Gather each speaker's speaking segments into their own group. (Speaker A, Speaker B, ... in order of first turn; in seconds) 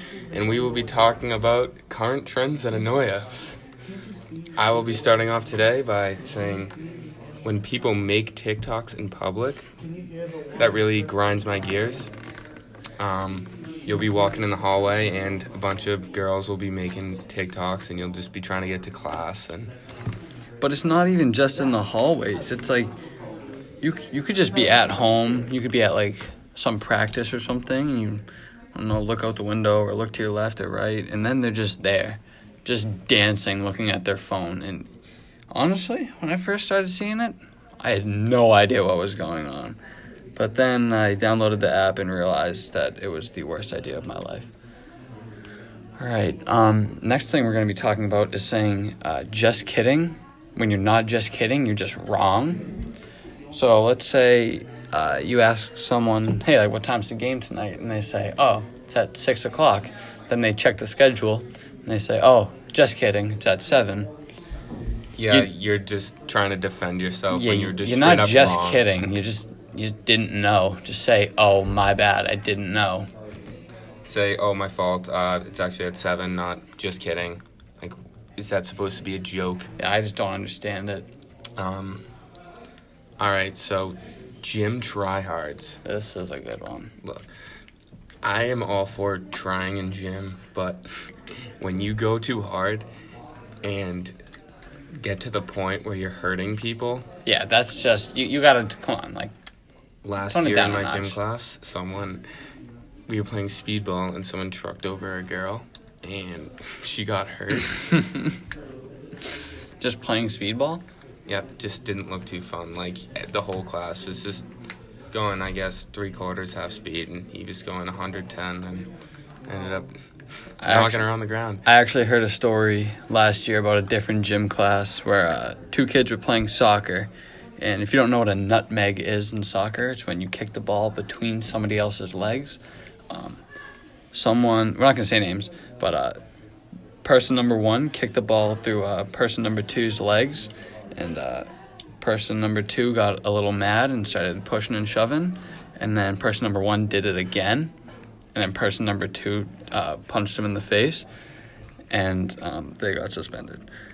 Speaker A: 0.3-3.5, 4.6-6.7, 7.4-9.7, 10.6-12.1, 13.0-19.7, 65.2-68.8, 74.0-79.7, 81.6-82.0, 83.2-85.8, 88.2-90.8, 91.6-92.8, 93.6-94.2, 95.0-97.0, 100.0-102.2, 103.1-107.8, 111.3-114.4, 115.1-118.9, 119.5-119.9, 120.6-121.6
Speaker B: 20.6-22.9, 23.8-34.9, 35.5-39.8, 40.4-44.5, 46.0-52.7, 53.5-64.1, 67.3-73.1, 79.8-81.1, 85.8-86.9, 97.2-99.3, 100.3-101.2, 109.8-110.8, 120.6-121.1, 121.6-132.6, 133.1-133.4, 134.1-136.2, 137.0-141.5, 142.0-147.7, 148.3-151.1, 151.9-153.6